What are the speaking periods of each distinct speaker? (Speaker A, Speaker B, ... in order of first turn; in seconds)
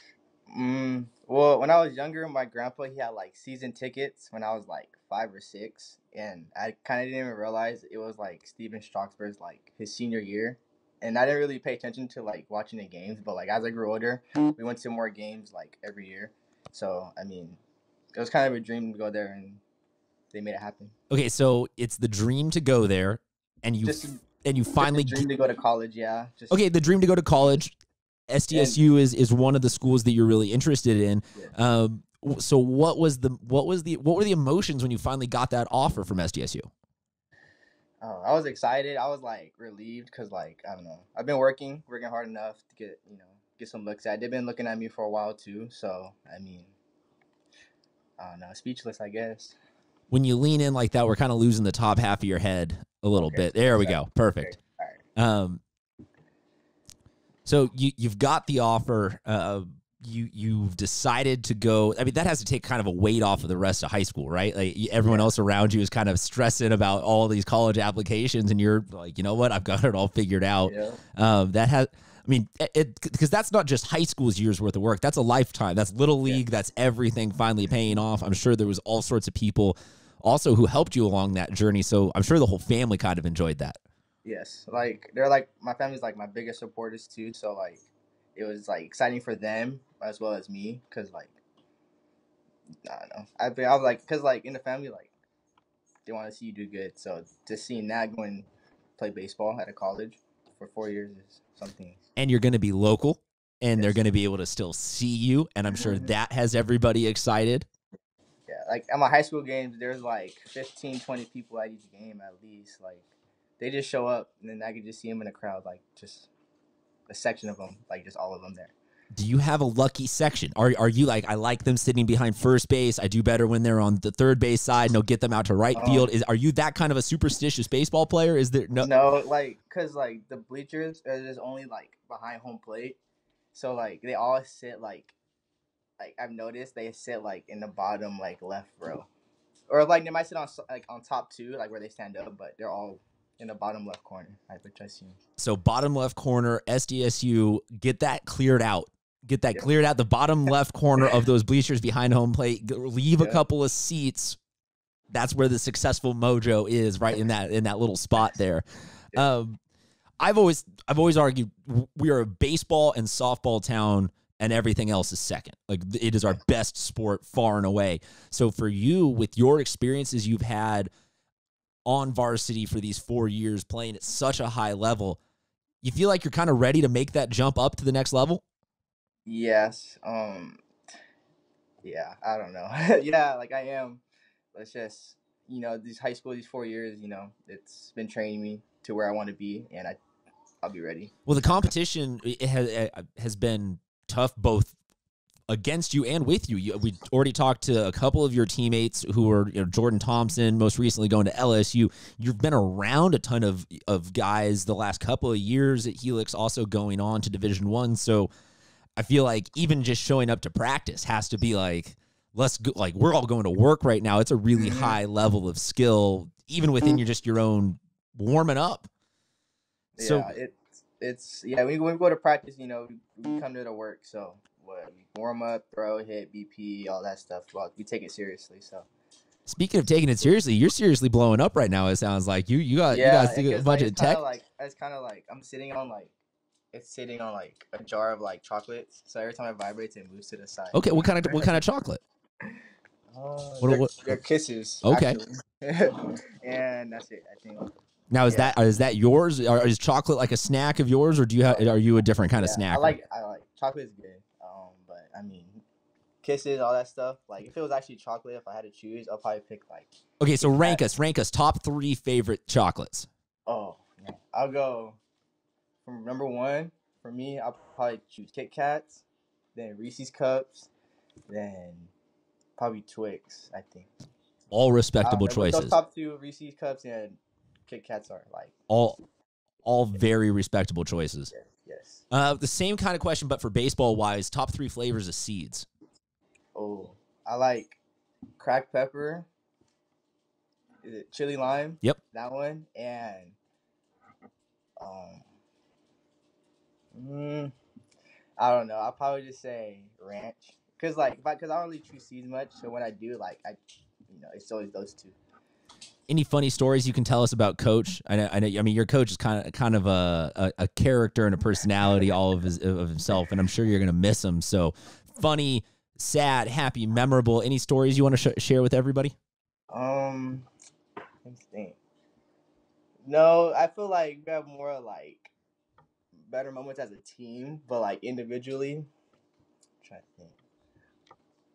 Speaker A: 0.5-17.6, 18.1-19.6, 20.3-20.9, 23.8-24.2, 24.8-26.7, 28.5-28.8, 38.0-46.7, 48.2-49.6, 53.2-55.0, 65.0-65.3, 70.7-71.0, 84.2-91.3, 92.8-95.1, 96.1-102.0, 105.7-106.1, 108.5-116.3, 117.1-118.7, 125.8-126.1, 128.8-133.0, 133.5-135.1, 136.0-139.1, 139.7-145.2, 179.2-180.6, 181.8-184.0, 184.5-190.0, 190.6-191.7, 214.5-215.0, 219.9-228.9, 232.9-236.2, 236.7-241.6, 243.1-247.7, 248.3-248.6, 251.5-255.6, 256.2-260.8, 263.5-265.0, 265.9-269.0, 269.6-270.7, 271.3-271.9, 272.6-273.9, 275.0-278.5, 281.3-282.0, 286.6-287.8, 288.4-289.3, 290.8-293.4, 294.8-295.2, 296.9-297.5, 298.4-305.2, 319.7-320.5, 321.2-321.8, 323.1-325.3, 326.3-328.9, 329.8-330.4
Speaker B: 21.1-25.2, 26.5-27.8, 28.3-36.7, 50.1-54.6, 55.2-55.6, 57.5-83.8, 102.2-107.7, 119.1-128.9, 145.4-154.4, 155.1-159.6, 160.2-170.9, 171.8-175.2, 175.8-178.4, 191.2-194.8, 195.5-208.3, 209.0-218.9, 220.0-220.3, 229.5-234.2, 240.7-242.0, 243.6-243.9, 244.8-245.2, 248.1-252.9, 260.2-263.1, 274.5-275.8, 278.7-279.0, 279.6-281.3, 282.1-285.7, 306.1-319.1